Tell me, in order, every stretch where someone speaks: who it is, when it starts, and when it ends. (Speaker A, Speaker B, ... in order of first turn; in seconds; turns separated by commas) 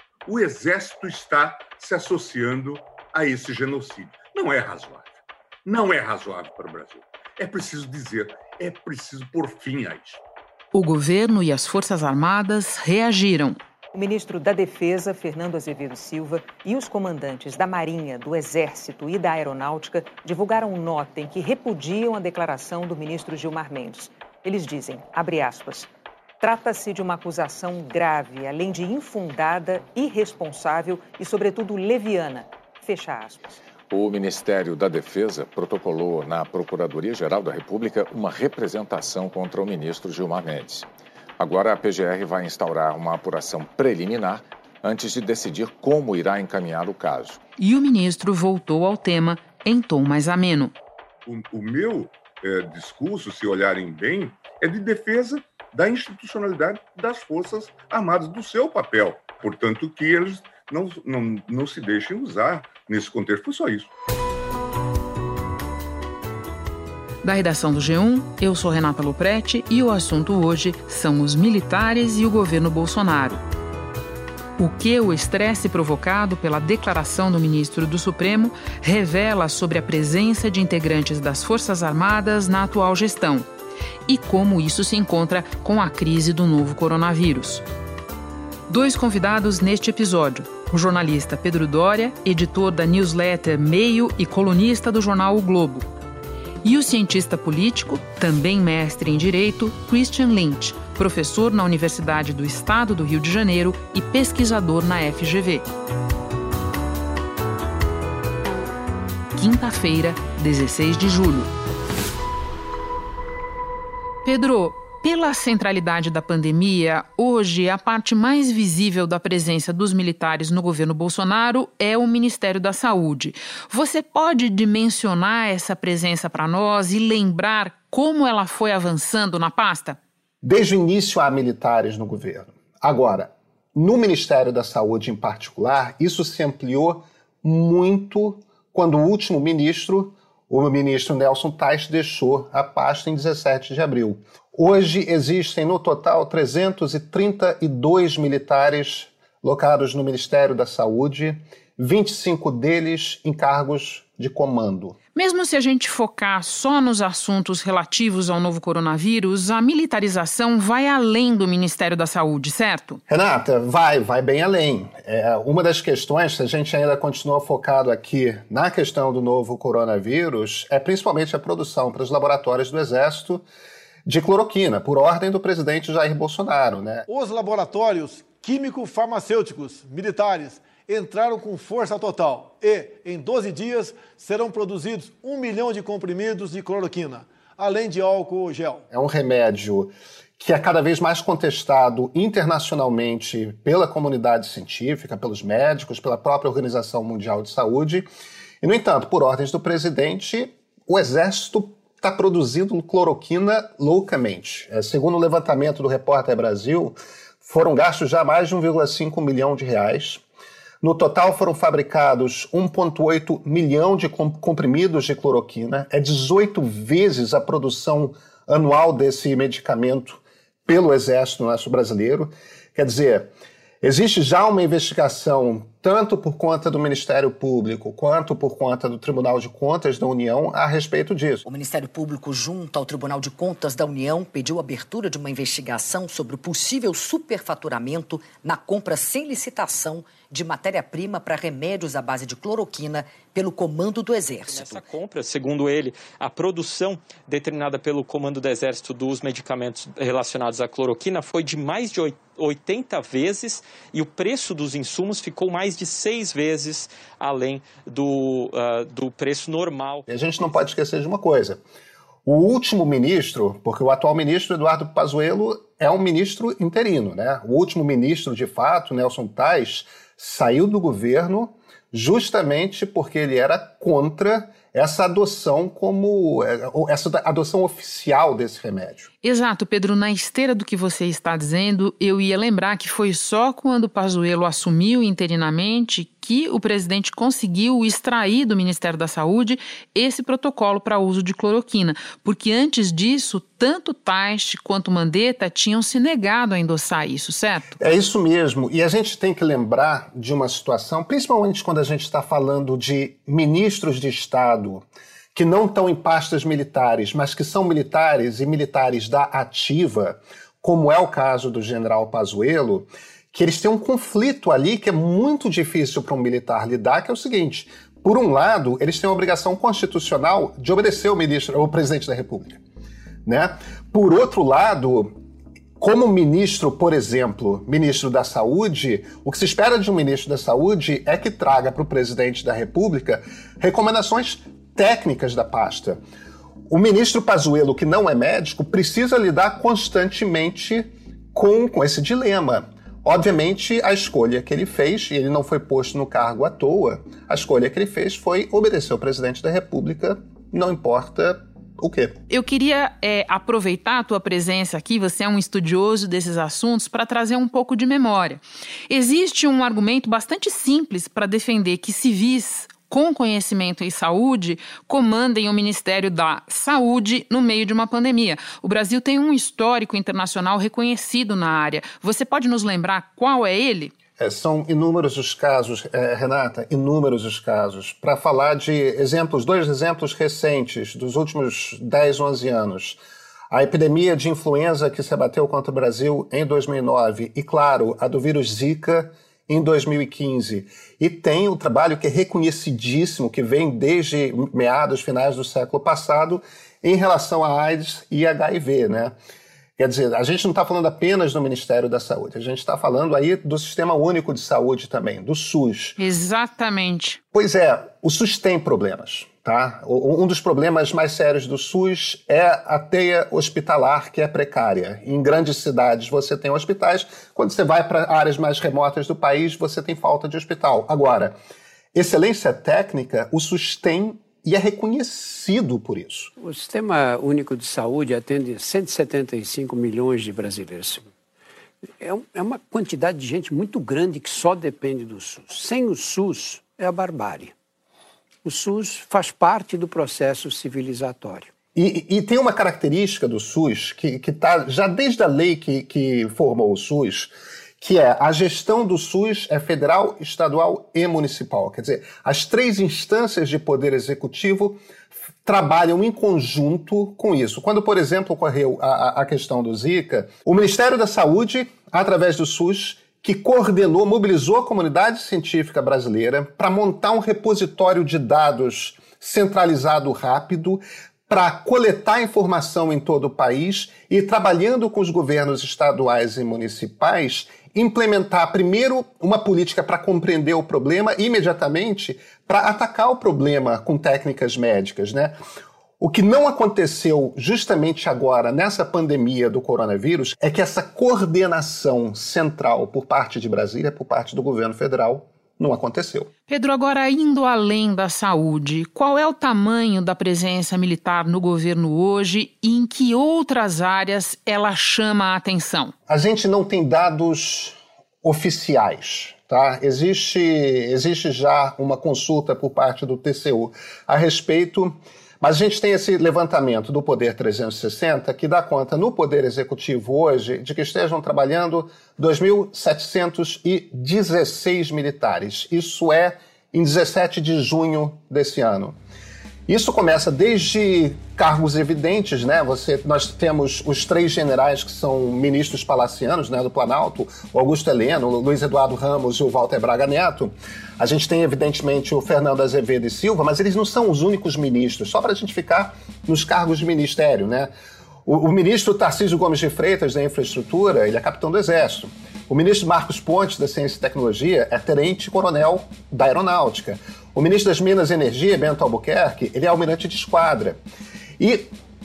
Speaker A: 0.2-10.2, Speaker B: 10.7-13.6, Speaker C: 13.9-33.5, Speaker D: 33.9-40.9, Speaker D: 41.4-47.4, Speaker B: 47.6-50.7, Speaker A: 51.2-63.9, Speaker B: 67.2-73.4, Speaker B: 74.6-83.5, Speaker B: 84.1-87.6, Speaker B: 88.7-95.8, Speaker B: 96.6-105.7, Speaker B: 109.3-111.5, Speaker B: 114.2-130.0, Speaker E: 130.4-154.9, Speaker B: 155.1-163.0, Speaker E: 163.1-173.4, Speaker E: 174.1-177.0, Speaker F: 177.1-188.8, Speaker E: 188.9-198.1, Speaker E: 198.6-210.2, Speaker E: 210.8-231.4, Speaker G: 231.4-244.8, Speaker H: 244.4-260.0, Speaker E: 260.1-261.6, Speaker E: 262.2-279.1, Speaker B: 279.2-297.8, Speaker E: 297.8-322.6, Speaker E: 323.2-325.1, Speaker E: 325.8-336.0, Speaker E: 336.7-352.2, Speaker B: 352.3-373.9, Speaker E: 374.2-383.0, Speaker E: 383.5-399.1, Speaker E: 399.8-406.0, Speaker B: 406.0-407.2, Speaker E: 407.3-421.4, Speaker E: 421.9-426.3, Speaker I: 426.4-431.1, Speaker I: 432.0-437.5, Speaker I: 438.4-441.5, Speaker E: 441.7-454.8, Speaker E: 455.4-485.4, Speaker E: 486.0-496.3, Speaker B: 496.5-505.9, Speaker E: 506.1-529.0, Speaker E: 529.7-547.7, Speaker E: 548.2-560.8, Speaker E: 561.4-561.7